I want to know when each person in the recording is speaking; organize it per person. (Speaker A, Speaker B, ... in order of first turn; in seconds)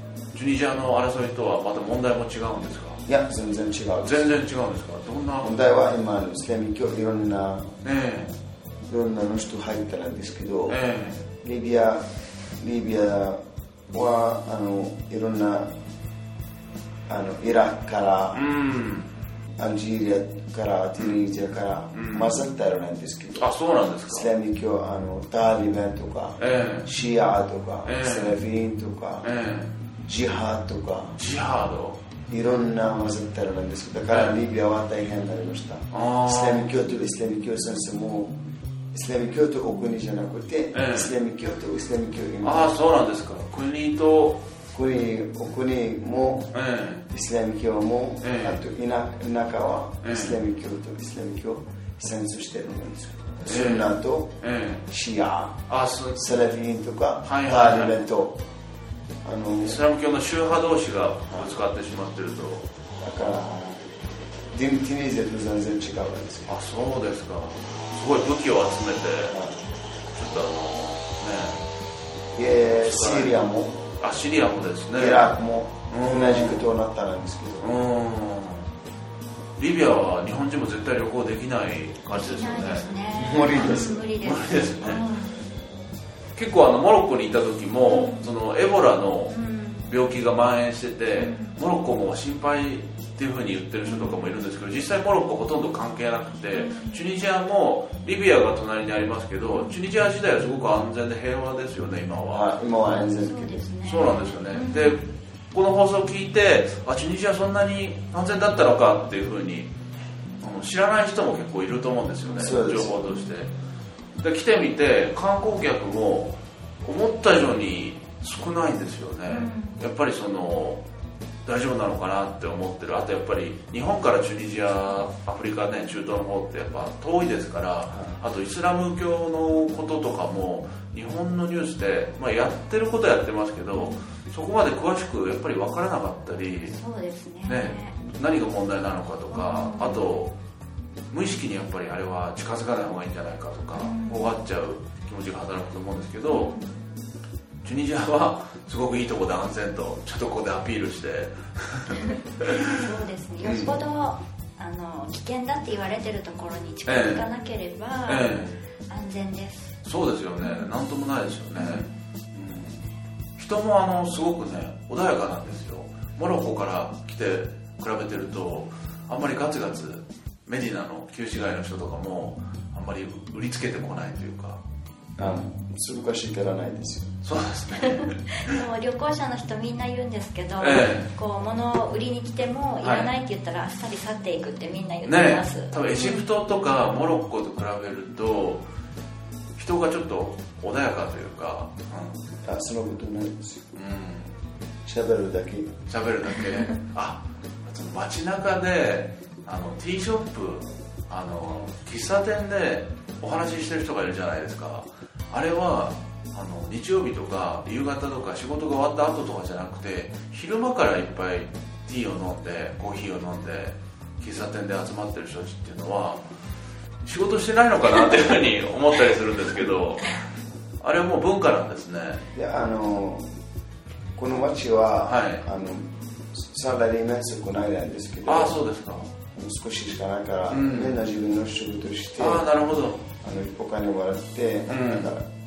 Speaker A: 0.3-3.0, 4.0-5.5, 7.8-8.3, 10.7-11.2, 18.3-19.1, 21.9-22.4, 23.4-24.3, 26.4-26.9, 27.9-28.4, 29.2-29.7, 31.2-32.0, 34.1-34.3, 35.9-36.7, 40.7-41.1, 42.4-44.4, 46.5-47.1, 48.2-48.6, 50.0-50.4, 53.5-54.8, 55.7-56.2, 57.2-58.0, 59.6-62.7, 66.5-69.4, 70.1-71.6, 72.8-73.4, 74.0-75.3, 75.9-76.7, 77.6-78.7, 79.6-82.9, 83.5-85.0, 86.3-89.3, 89.8-102.5, 103.8-109.7, 110.4-113.5, 114.2-120.8, 121.4-136.8, 137.5-140.3, 141.1-146.5, 147.6-152.8, 153.4-153.7, 156.8-157.2, 158.1-158.6, 159.8-162.8, 163.4-174.6, 177.2-178.6, 180.6-181.1, 182.8-183.1, 185.1-188.6, 189.6-192.2, 193.8-194.3, 195.9-216.2, 217.0-220.2, 220.8-222.2, 225.1-225.4, 228.3-229.1, 230.5-231.0, 232.2-233.0, 234.7-235.1
Speaker B: 3.0-4.3, 5.4-7.7, 8.9-10.8, 11.4-12.1, 12.6-15.7, 17.1-18.4, 19.6-23.5, 24.1-29.3, 30.1-31.2, 32.3-38.3, 38.9-42.7, 44.7-46.5, 47.1-58.4, 59.2-59.8, 63.0-63.8, 64.5-66.5, 69.3-69.6, 72.3-73.8, 74.9-77.7, 83.2-84.0, 102.3-103.6, 112.4-113.1, 175.2-177.2, 192.4-193.7, 194.8-195.8, 222.3-223.2, 224.1-228.6, 229.3-232.4, 233.2-235.3
Speaker C: 82.1-85.4, 87.8-88.2, 89.3-89.9, 91.2-91.6, 93.8-94.2, 96.5-97.1, 99.6-99.8, 103.2-105.0, 112.3-112.5, 119.3-119.8, 133.8-134.0, 136.7-137.9, 139.3-140.1, 143.8-144.3, 146.3-146.8, 151.9-159.8, 160.4-160.7, 161.6-161.9, 177.8-186.2